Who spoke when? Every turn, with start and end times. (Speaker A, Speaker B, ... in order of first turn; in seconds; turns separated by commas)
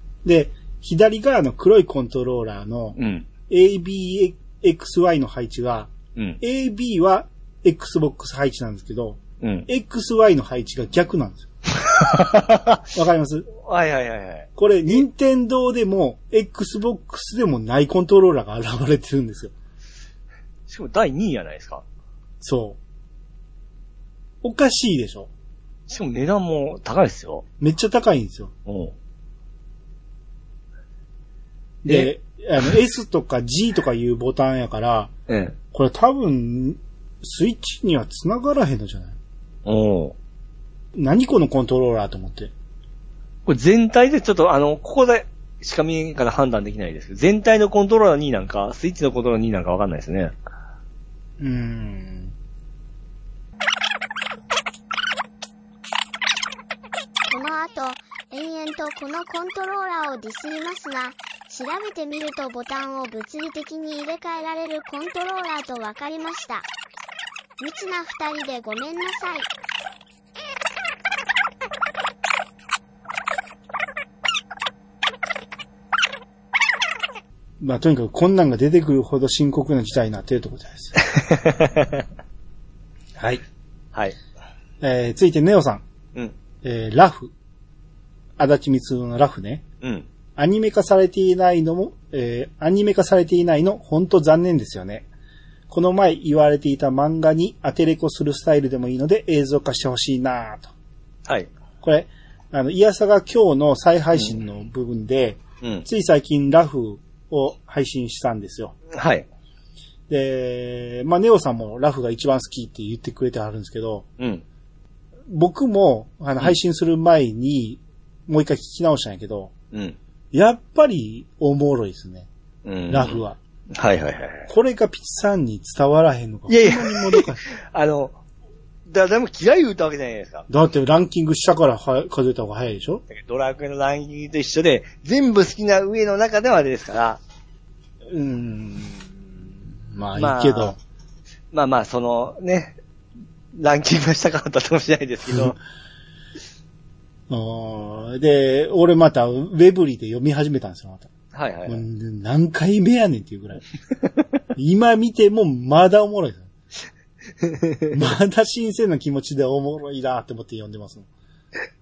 Speaker A: 0.2-3.0, Speaker B: 3.0-3.3, Speaker A: 3.5-11.5, Speaker B: 9.4-9.7, Speaker B: 11.8-12.8, Speaker A: 12.9-13.5, Speaker B: 13.6-14.5, Speaker A: 14.6-19.5, Speaker B: 20.7-21.8, Speaker A: 22.4-22.8, Speaker A: 24.4-25.3, Speaker B: 25.9-27.4, Speaker A: 27.6-28.5, Speaker B: 28.7-28.9, Speaker A: 31.8-35.1, Speaker B: 31.9-32.1, Speaker B: 35.3-35.6, Speaker A: 35.7-39.2, Speaker B: 39.7-40.1, Speaker A: 41.0-42.5, Speaker B: 43.5-50.4, Speaker A: 51.4-52.3, Speaker C: 57.3-66.7, Speaker C: 67.6-69.5, Speaker A: 77.6-81.0, Speaker B: 81.0-82.1, Speaker A: 83.2-83.4, Speaker A: 84.8-85.8, Speaker A: 86.6-87.3, Speaker A: 88.4-89.6, Speaker B: 89.8-90.1, Speaker A: 90.4-95.1, Speaker A: 95.7-100.7, Speaker B: 101.3-101.5, Speaker A: 101.8-108.7, Speaker B: 108.9-109.3, Speaker A: 110.1-114.1, Speaker B: 114.2-114.4, Speaker A: 115.3-119.5, Speaker B: 119.7-120.0, Speaker A: 120.3-122.3, Speaker B: 122.7-123.2, Speaker A: 122.9-123.4, Speaker B: 123.7-124.5, Speaker A: 124.5-127.4, Speaker B: 126.5-128.2, Speaker B: 128.9-130.5, Speaker A: 130.5-133.0, Speaker B: 133.1-137.2, Speaker A: 138.1-140.8, Speaker B: 140.2-140.8, Speaker B: 141.5-142.8, Speaker B: 143.5-145.6, Speaker A: 147.3-151.1, Speaker B: 151.3-151.8, Speaker A: 151.7-153.6, Speaker A: 154.6-156.5, Speaker B: 157.4-157.9, Speaker A: 157.9-161.1